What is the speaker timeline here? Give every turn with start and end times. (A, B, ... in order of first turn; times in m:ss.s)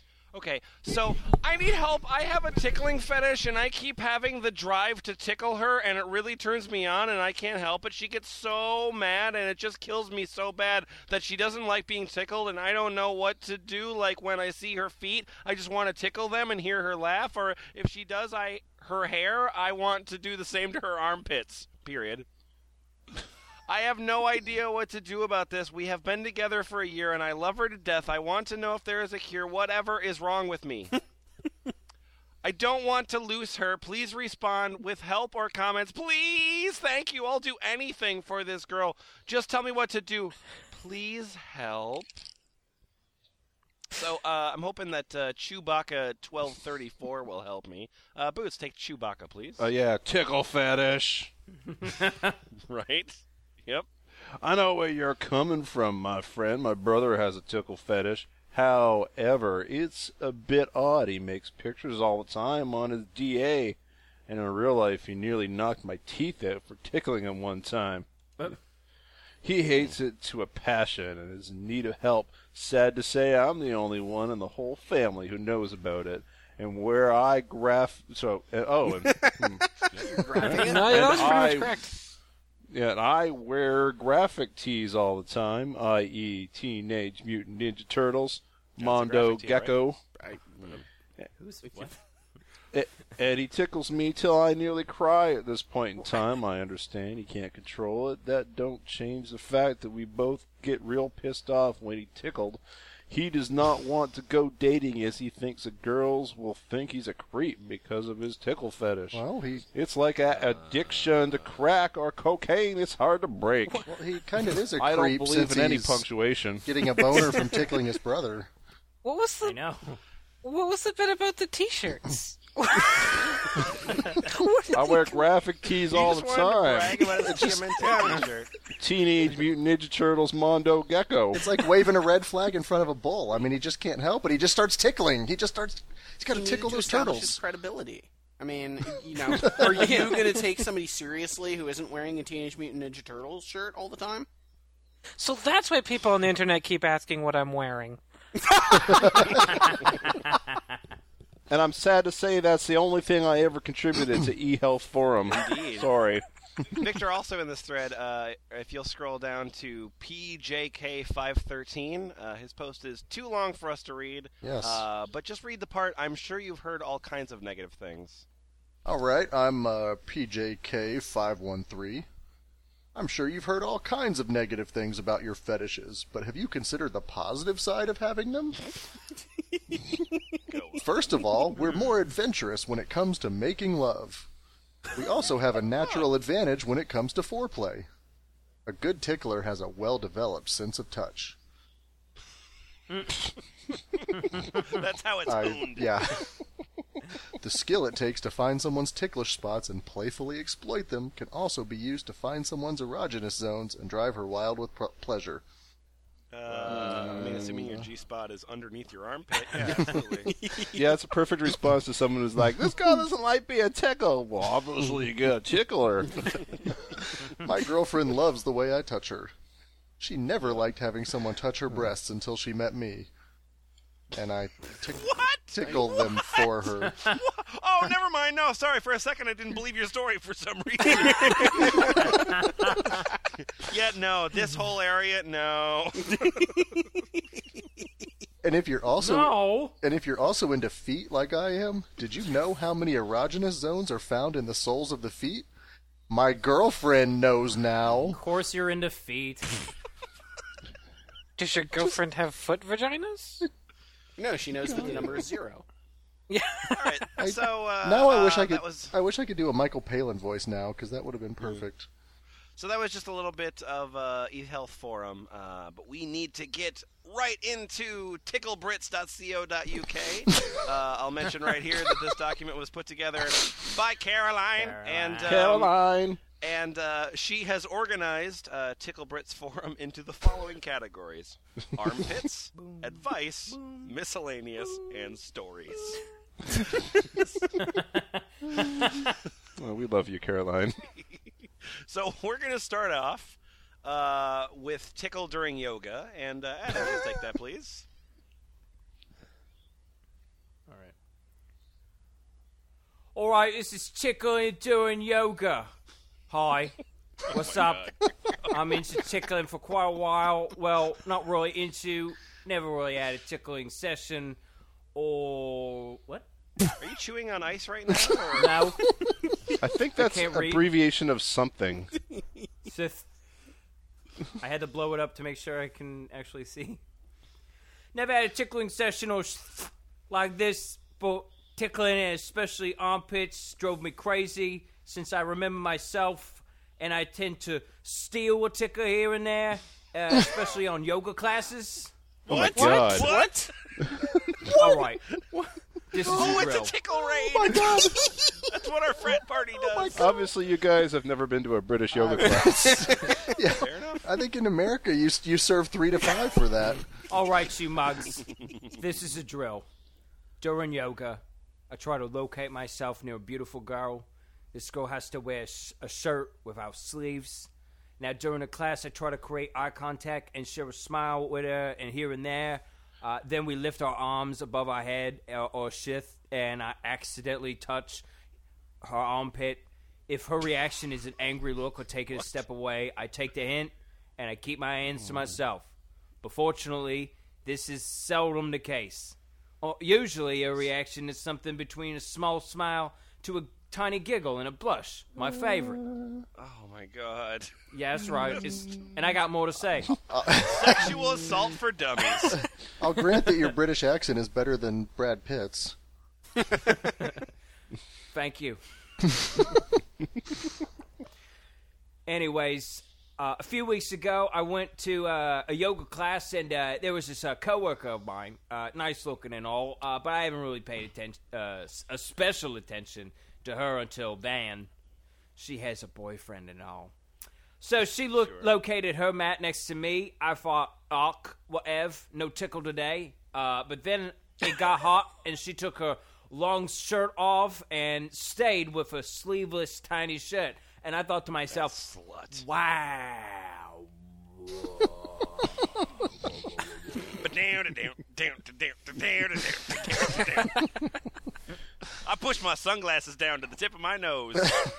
0:00.3-0:22.2 A
0:23.7-0:30.9 A
0:32.4-0:42.2 A
0:43.9-0:49.7 A
0:49.6-0:51.3 B
0:51.8-0:52.4 C
0:52.6-0:53.9 A
0:54.4-1:03.8 B
1:04.3-1:08.5 B
1:09.4-1:21.8 B
1:18.9-1:21.5 D
1:20.5-1:21.9 E
1:22.7-1:30.0 B
1:28.8-1:29.8 A
1:30.1-1:30.8 D
1:31.4-1:32.0 C
1:31.7-1:31.9 D
1:32.7-1:49.2 B
1:49.1-1:49.6 F
1:49.7-1:53.9 B
1:50.4-1:51.4 A
1:53.8-1:56.0 F
1:54.8-1:57.3 B
1:56.6-1:58.5 F
1:59.0-1:59.6 E
1:59.4-2:00.0 C
2:00.4-2:03.6 E
2:04.2-2:05.2 E
2:04.7-2:07.5 B
2:05.9-2:08.5 A
2:08.8-2:11.5 B
2:11.3-2:17.4 F
2:16.3-2:24.3 D
2:19.3-2:20.1 F
2:25.2-2:28.0 E
2:28.6-2:28.8 D
2:31.5-2:36.2 B
2:35.3-2:35.9 A
2:36.7-2:48.2 A
2:44.4-2:44.8 F
2:48.8-2:52.1 F
2:52.9-2:58.6 F
3:00.4-3:01.1 A
3:00.8-3:04.3 F
3:04.9-3:07.9 F
3:08.6-3:11.4 F
3:14.3-3:16.1 A
3:15.2-3:16.3 F
3:17.3-3:25.4 F
3:26.3-3:30.3 A
3:26.7-3:27.4 D
3:27.3-3:27.8 F
3:29.5-3:31.5 D
3:30.7-3:36.4 B
3:37.3-3:39.3 F
3:40.0-3:43.1 F
3:44.1-3:47.1 F
3:45.0-3:46.4 A
3:47.0-3:52.0 A
3:50.9-3:52.1 D
3:53.6-3:56.2 A
3:56.1-3:56.9 D
3:58.4-4:05.5 F
3:59.0-3:59.7 C
4:06.1-4:08.2 F
4:08.0-4:09.6 C
4:11.4-4:13.4 E
4:14.2-4:15.6 D
4:14.6-4:15.1 F
4:16.3-4:17.2 E
4:16.7-4:18.9 A
4:17.2-4:21.9 F
4:22.6-4:35.7 A
4:34.6-4:35.6 C
4:35.2-4:36.2 B
4:36.4-4:46.0 A
4:43.5-4:43.9 C
4:47.6-4:48.7 C
4:48.6-4:48.9 B
4:49.6-4:50.8 B
4:51.8-4:57.8 A
5:00.7-5:00.9 C
5:03.1-5:05.7 C
5:06.3-5:06.8 C
5:07.3-5:14.4 C
5:07.3-5:07.9 A
5:14.9-5:16.3 C
5:16.8-5:18.6 A
5:18.4-5:18.9 C
5:19.6-5:21.9 B
5:20.0-5:20.6 C
5:22.6-5:23.0 C
5:24.4-5:26.8 C
5:27.9-5:41.9 C
5:42.2-5:43.5 A
5:42.3-5:43.1 B
5:42.5-5:43.5 D
5:44.5-5:45.1 C
5:45.9-5:46.7 C
5:46.0-5:47.7 A
5:47.3-5:48.4 D
5:47.4-5:48.0 F
5:48.5-5:50.1 A
5:49.8-5:50.2 D
5:49.9-5:52.8 B
5:51.9-5:56.9 F
5:52.2-5:53.3 D
5:53.4-5:54.0 A
5:57.1-5:59.6 C
6:00.4-6:18.0 C
6:18.8-6:35.8 C
6:36.4-6:37.5 A
6:37.7-6:39.9 C
6:40.1-6:41.0 F
6:40.4-6:42.4 A
6:42.3-6:45.8 F
6:48.1-6:48.6 C
6:52.0-7:04.7 C
7:05.4-7:06.9 C
7:07.6-7:25.6 C
7:08.2-7:08.5 A
7:21.5-7:22.4 A
7:26.2-7:27.0 C
7:27.2-7:30.6 A
7:32.0-7:34.7 A